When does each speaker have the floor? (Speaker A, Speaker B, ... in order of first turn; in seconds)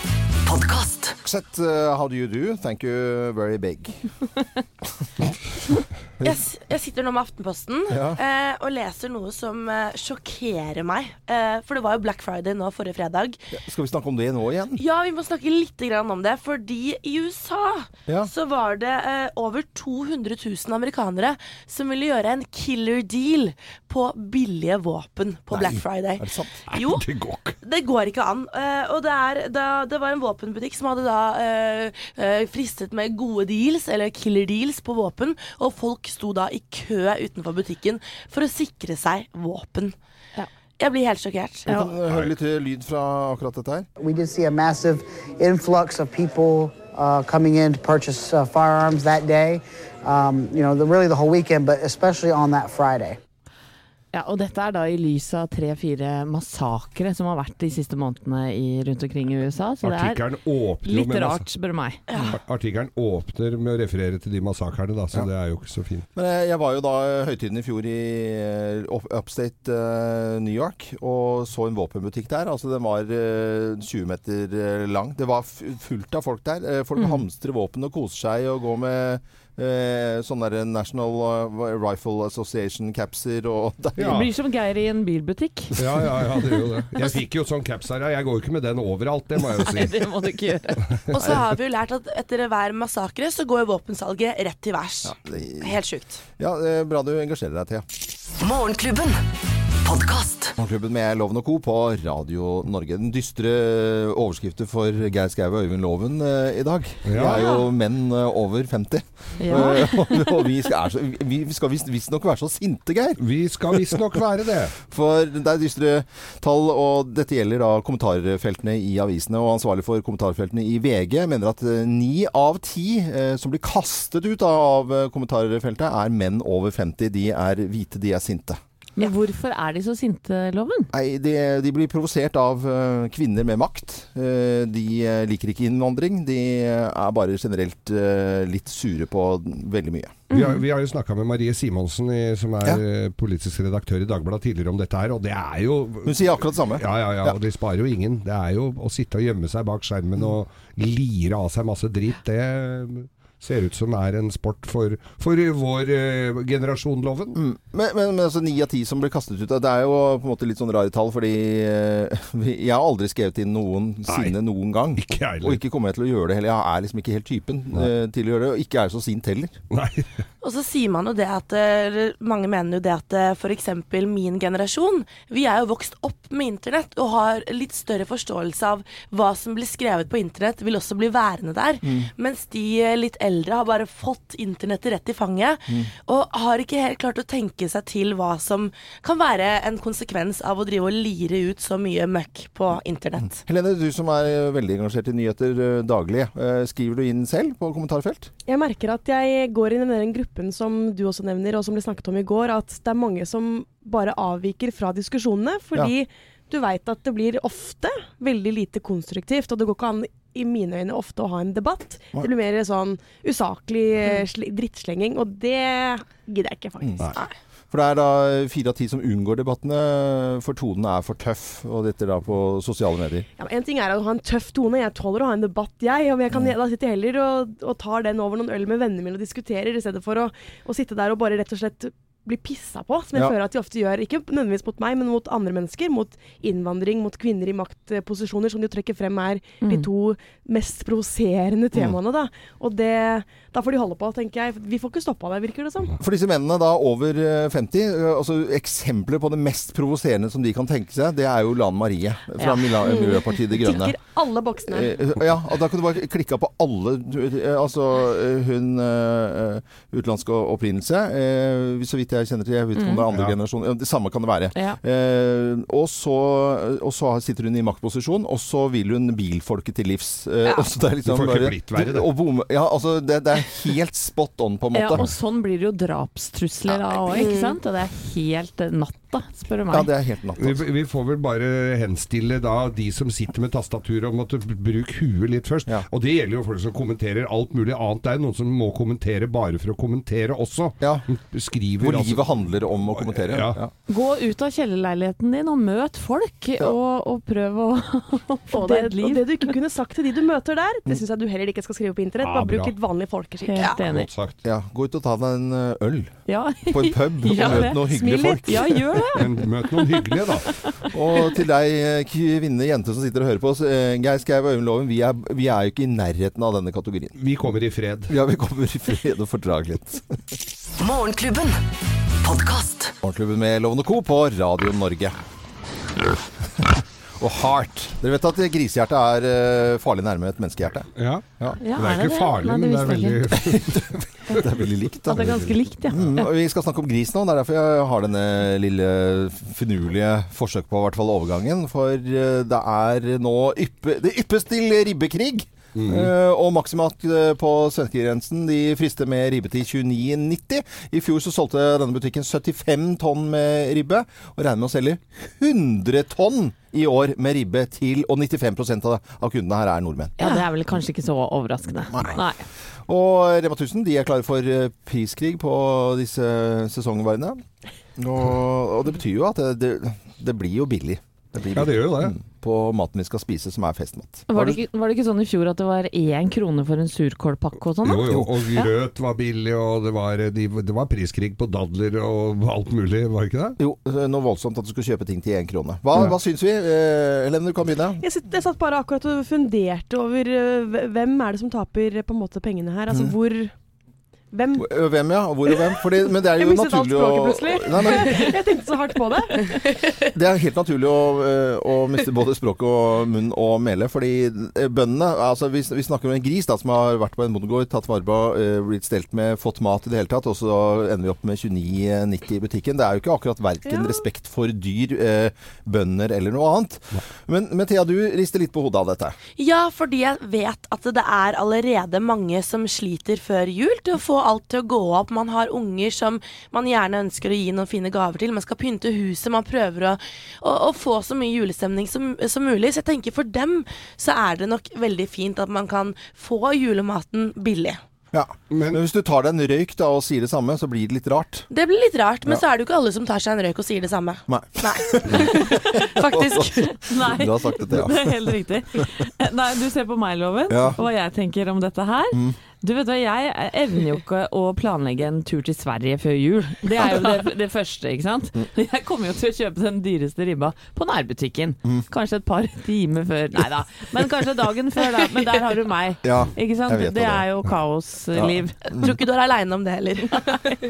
Speaker A: 0.4-1.2, 98.4-99.2, 99.8-100.5, 320.8-321.6, 322.2-322.9
Speaker B: 1.2-4.0, 7.9-8.2, 13.5-14.8, 25.5-26.6, 41.6-43.9, 66.1-84.3, 91.1-91.4, 95.0-95.8, 96.4-97.8, 100.6-113.2, 113.7-114.0, 114.8-128.6, 130.9-140.2, 146.0-147.4, 157.3-169.6, 181.8-182.1, 193.4-198.3, 217.7-223.2, 246.0-254.0, 254.7-275.1, 276.7-276.9, 279.7-280.6, 291.8-293.7, 304.4-306.1, 306.6-309.0, 310.9-317.2, 318.1-320.1, 323.0-325.2, 326.6-330.9, 333.4-360.2, 361.9-362.2, 362.9-367.4, 368.0-374.6, 383.6-388.0, 394.6-398.3, 400.1-419.2, 438.1-441.5, 444.3-448.3, 450.5-450.8, 452.1-452.4, 466.0-467.3, 468.1-468.9
Speaker C: 6.2-13.4, 14.8-27.1, 27.6-39.9, 40.8-41.7, 91.1-96.2, 170.4-193.4, 419.4-437.8, 441.5-446.7, 468.7-470.6
Speaker D: 26.7-27.6, 42.0-42.3, 59.8-61.5, 62.2-66.0, 84.0-84.3, 85.8-90.0, 90.9-91.2, 107.0-107.6, 113.2-114.7, 140.3-157.4, 164.1-164.3, 164.9-165.6, 169.7-170.1, 271.0-272.1, 280.4-293.6, 302.2-302.7, 303.8-304.4, 309.1-310.5, 317.2-318.1, 331.0-334.4, 335.1-335.5, 345.8-346.1, 371.5-372.2, 377.8-383.6, 438.5-438.8
Speaker E: 44.0-53.2
Speaker F: 54.1-60.2, 60.8-62.0, 84.0-85.8, 89.6-90.8, 107.3-107.6, 109.4-110.3, 128.9-130.9, 140.3-140.6, 239.6-239.9, 262.8-263.0, 274.7-279.9, 293.9-299.4, 303.4-304.1, 306.3-310.1, 331.6-333.3, 335.1-336.2, 360.2-362.4, 374.3-378.7, 445.8-468.5
Speaker G: 198.5-217.2, 223.4-245.9, 252.8-255.0, 277.2-277.5, 298.5-303.8, 307.3-308.7, 388.0-393.5, 394.3-394.7, 396.0-399.6